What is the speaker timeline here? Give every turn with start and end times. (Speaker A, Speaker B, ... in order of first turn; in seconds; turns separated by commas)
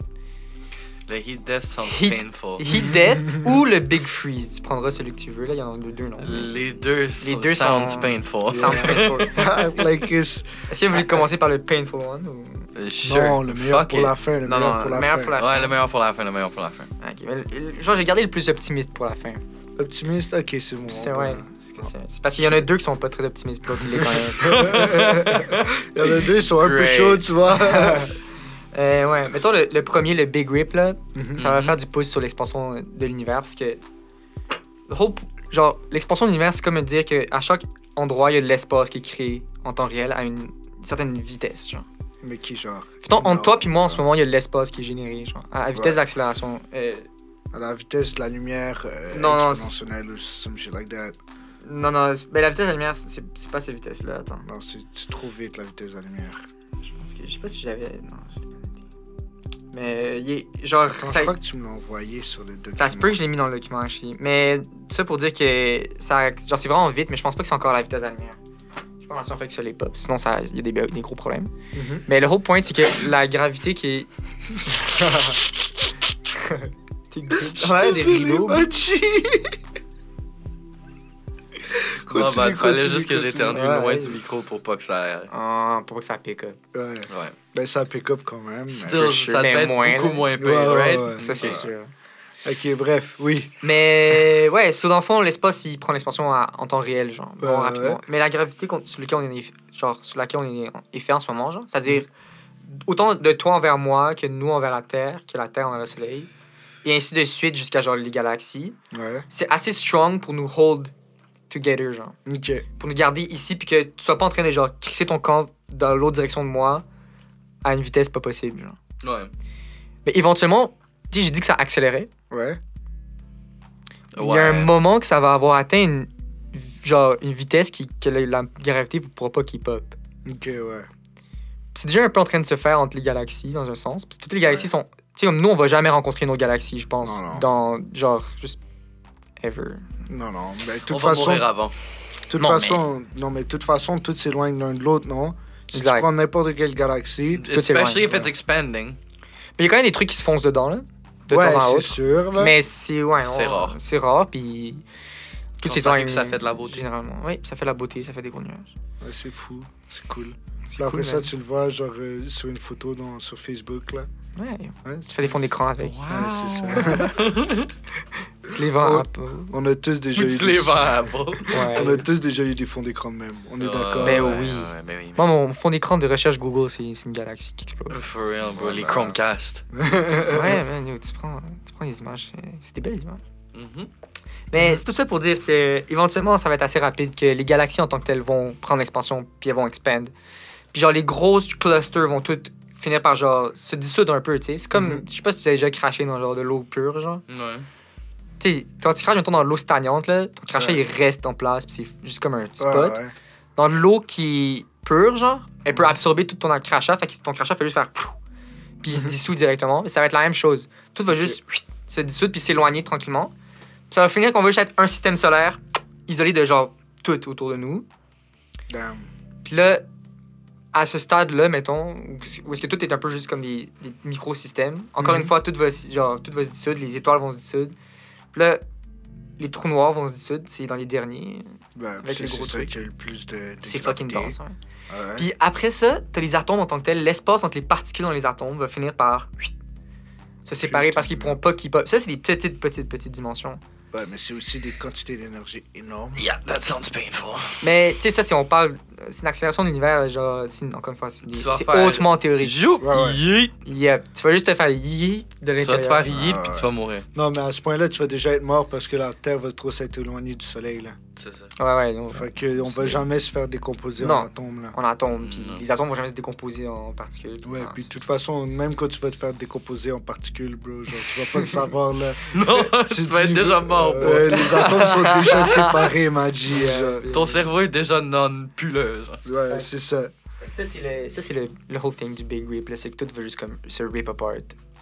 Speaker A: 1.1-2.7, Speaker B: 1.8-6.7, Speaker C: 2.7-3.5, Speaker A: 6.2-9.8, Speaker B: 7.2-9.8, Speaker C: 8.5-11.2, Speaker B: 10.7-12.7, Speaker A: 12.7-14.1, Speaker C: 13.0-15.3, Speaker B: 14.4-15.8, Speaker A: 15.4-16.9, Speaker B: 17.0-19.4, Speaker C: 19.8-21.9, Speaker B: 20.9-25.5, Speaker A: 24.1-25.6, Speaker C: 24.4-28.1, Speaker A: 26.4-27.2, Speaker B: 27.5-28.1, Speaker B: 28.7-33.8, Speaker C: 31.1-31.4, Speaker A: 31.4-31.8, Speaker B: 34.9-41.9, Speaker C: 42.2-44.0, Speaker B: 43.0-47.1, Speaker C: 45.7-46.0, Speaker C: 47.5-51.2, Speaker B: 49.1-49.8, Speaker B: 51.6-54.5, Speaker C: 54.4-56.5, Speaker B: 56.8-58.8, Speaker B: 59.7-61.3, Speaker C: 60.9-63.2, Speaker B: 62.8-68.4, Speaker B: 69.0-71.5, Speaker C: 71.7-72.0, Speaker B: 72.1-74.1, Speaker B: 74.6-75.4, Speaker B: 76.3-78.7, Speaker C: 77.4-79.6, Speaker C: 81.7-83.6, Speaker A: 82.1-85.3, Speaker B: 83.5-84.2, Speaker B: 85.3-86.6, Speaker C: 86.7-89.2, Speaker A: 87.1-87.3, Speaker A: 88.7-91.6, Speaker B: 88.9-90.3, Speaker C: 90.3-91.7, Speaker B: 91.1-91.9, Speaker C: 92.4-93.6, Speaker B: 93.6-102.1, Speaker C: 97.4-98.0, Speaker B: 102.6-106.3, Speaker B: 106.8-108.8, Speaker C: 108.9-109.2, Speaker B: 109.3-110.9, Speaker B: 111.5-112.2, Speaker C: 112.2-112.7, Speaker B: 112.8-116.8, Speaker B: 117.6-118.8, Speaker A: 119.0-119.3, Speaker B: 120.0-122.1, Speaker C: 122.3-122.6, Speaker A: 124.1-124.7, Speaker B: 124.2-130.0, Speaker C: 130.2-130.9, Speaker B: 131.7-138.6, Speaker C: 137.0-137.5, Speaker B: 139.4-139.9, Speaker C: 140.1-141.4, Speaker A: 140.9-141.7, Speaker C: 142.3-147.4, Speaker B: 142.4-142.8, Speaker B: 145.7-146.1, Speaker A: 147.3-149.0, Speaker B: 147.5-148.3, Speaker B: 149.6-154.8, Speaker C: 151.3-152.5, Speaker A: 153.2-153.8, Speaker B: 155.6-158.7, Speaker A: 155.6-156.8, Speaker C: 159.0-164.1, Speaker B: 160.7-161.3, Speaker B: 164.3-166.0, Speaker C: 164.8-165.4, Speaker A: 165.8-167.7, Speaker C: 166.1-167.2, Speaker B: 166.8-167.1, Speaker B: 168.4-169.5, Speaker C: 168.8-174.4, Speaker A: 170.2-171.6, Speaker B: 171.5-172.1, Speaker A: 173.6-175.2, Speaker B: 174.0-178.0, Speaker A: 177.9-179.6, Speaker C: 178.5-179.2, Speaker C: 179.7-180.6, Speaker B: 180.2-183.2, Speaker A: 183.5-183.9, Speaker B: 184.5-190.1, Speaker C: 184.6-184.8, Speaker B: 190.7-197.2, Speaker C: 194.7-195.0, Speaker A: 197.3-197.7, Speaker B: 198.4-203.0, Speaker C: 200.6-200.8, Speaker C: 202.6-203.1, Speaker B: 203.6-208.2, Speaker B: 208.8-213.3, Speaker C: 208.9-209.2, Speaker C: 211.1-211.4, Speaker B: 213.9-217.9, Speaker C: 218.7-219.1, Speaker B: 219.4-219.8, Speaker B: 220.7-227.7, Speaker C: 225.0-225.3, Speaker B: 228.3-228.6, Speaker B: 229.4-231.5, Speaker C: 231.8-234.3, Speaker B: 232.0-232.7, Speaker B: 233.6-234.6, Speaker C: 234.9-235.3, Speaker B: 235.2-239.5, Speaker B: 240.4-243.6, Speaker C: 240.6-241.4, Speaker C: 243.9-246.2, Speaker A: 246.2-247.6, Speaker B: 247.6-252.6, Speaker A: 251.3-253.5, Speaker C: 252.8-253.2, Speaker B: 253.6-256.1, Speaker A: 255.6-257.1, Speaker C: 256.1-261.0, Speaker A: 261.2-261.5, Speaker B: 261.6-263.0, Speaker C: 262.1-264.8, Speaker B: 264.0-268.0, Speaker A: 265.1-265.6, Speaker C: 267.4-277.0, Speaker A: 272.3-275.7, Speaker B: 273.9-275.9, Speaker B: 276.5-277.5, Speaker A: 277.1-279.2, Speaker C: 279.2-280.1, Speaker B: 280.4-284.6